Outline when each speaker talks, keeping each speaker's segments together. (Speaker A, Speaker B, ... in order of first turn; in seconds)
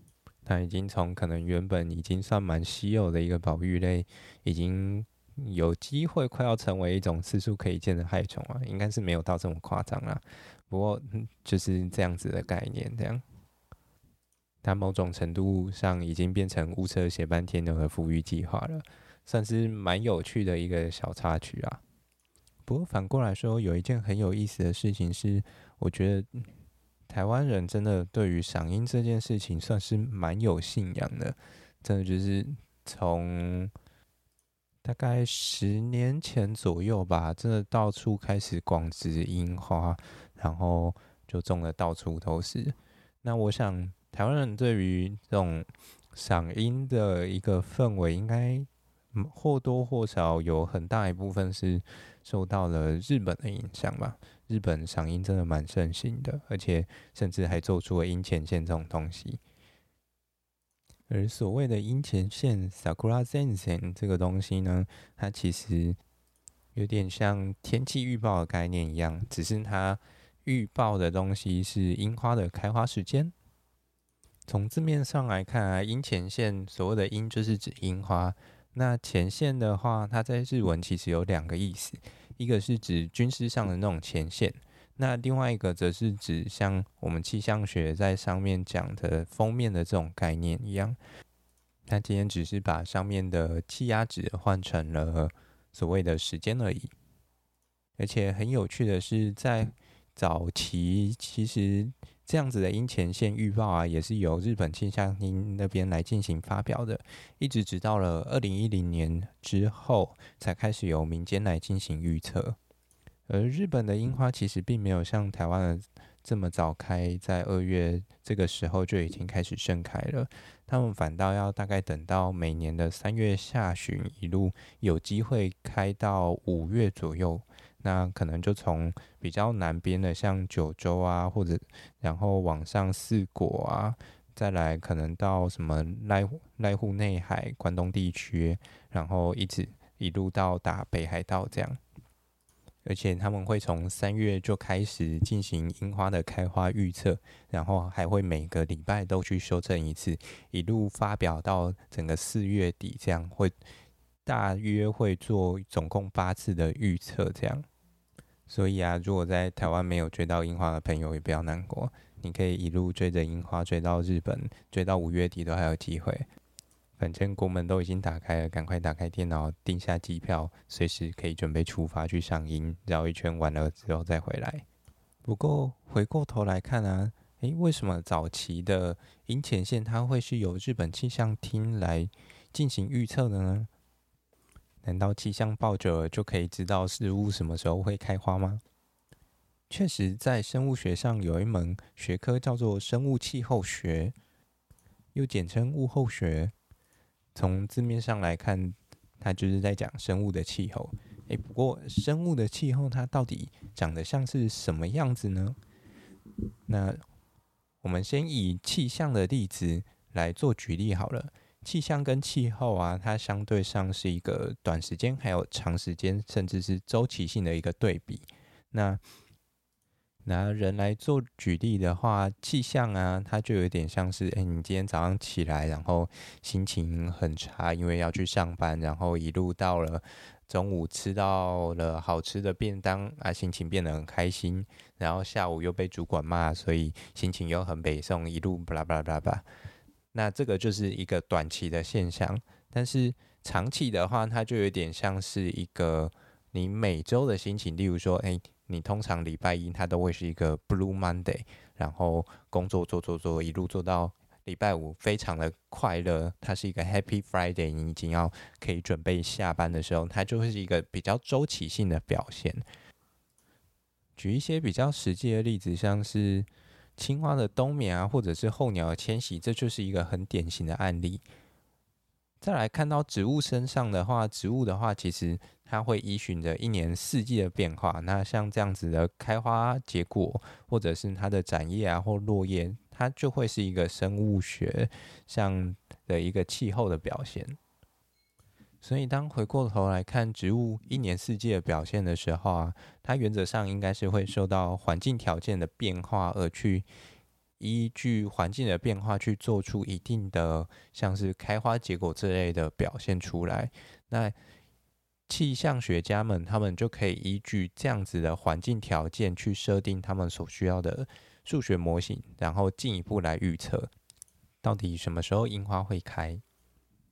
Speaker A: 0.4-13.2, 14.6-21.8, 22.7-26.4, 27.1-33.7, 34.8-59.4, 61.1-66.0, 66.8-73.3, 74.5-91.0, 91.9-96.9, 98.0-112.6, 113.3-141.8, 142.8-153.5, 154.2-157.7, 158.5-166.3, 167.0-174.6, 175.2-183.7, 184.8-188.6, 189.7-194.1, 195.1-196.5, 197.3-205.6, 206.7-207.0, 207.8-219.0, 220.2-239.4, 240.1-262.6, 264.2-271.2, 272.4-287.6, 288.8-296.9, 297.6-304.3, 305.3-313.9, 314.6-316.4